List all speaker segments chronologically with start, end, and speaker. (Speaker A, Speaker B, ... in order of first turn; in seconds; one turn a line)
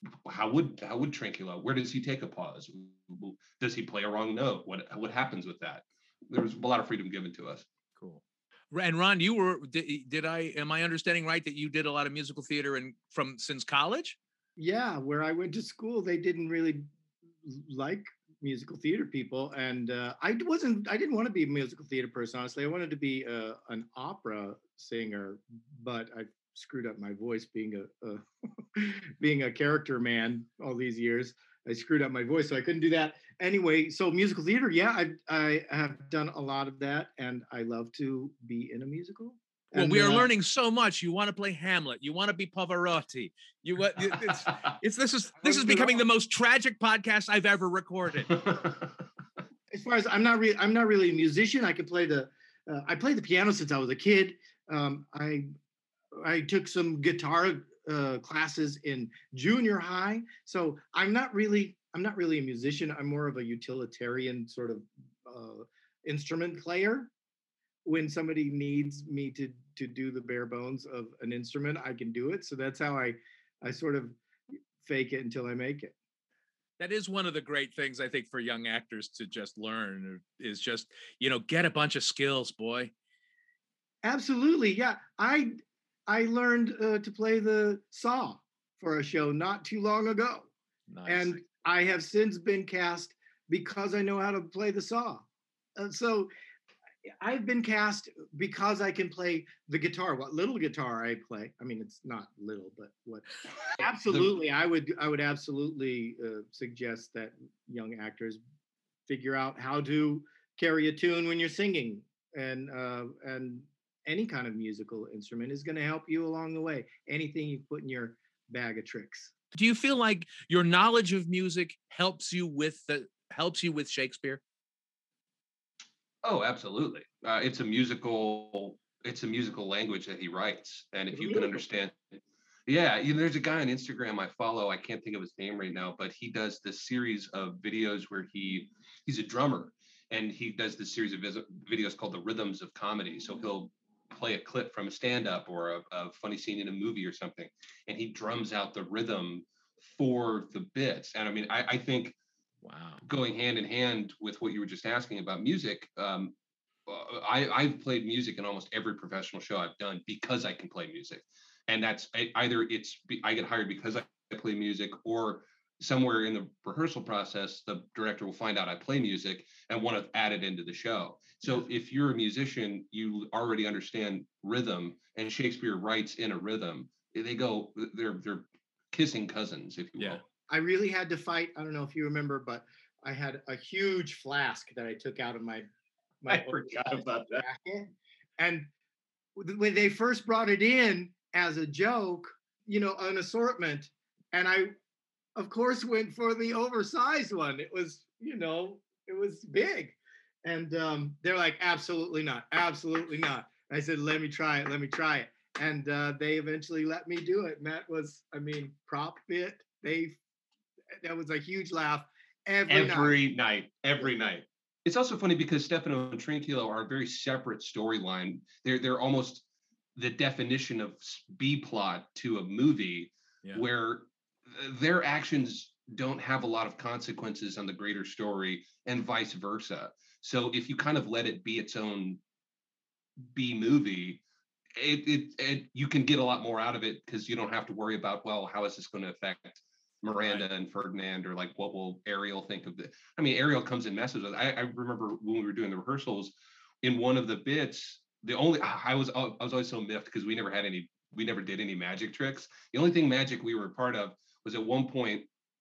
Speaker A: 0.2-7.7
Speaker B: 8.0-14.2
Speaker C: 14.6-16.9
Speaker C: 17.4-40.3
Speaker B: 39.8-48.4
Speaker C: 45.5-46.0
Speaker A: 48.3-48.8
Speaker C: 49.7-55.5
Speaker C: 56.1-67.1
Speaker C: 67.8-74.2
Speaker C: 74.8-75.9
Speaker B: 76.8-82.9
Speaker C: 84.0-85.6
Speaker C: 86.1-90.5
Speaker B: 90.9-91.4
Speaker C: 91.1-95.2
Speaker C: 95.8-96.3
Speaker C: 97.2-108.4
Speaker A: 104.1-104.4
Speaker C: 109.1-119.3
Speaker B: 119.5-124.4
Speaker A: 126.2-152.2
Speaker C: 131.1-131.6
Speaker B: 152.6-153.0
Speaker A: 153.1-156.3
Speaker A: 156.9-180.2
Speaker C: 180.5-185.7
Speaker C: 186.2-188.7
Speaker A: 186.3-187.4
Speaker C: 189.4-194.7
Speaker C: 195.4-210.2
Speaker C: 211.0-213.2
Speaker A: 212.7-219.4
Speaker A: 220.0-232.2
Speaker A: 233.2-234.2
Speaker A: 234.8-255.3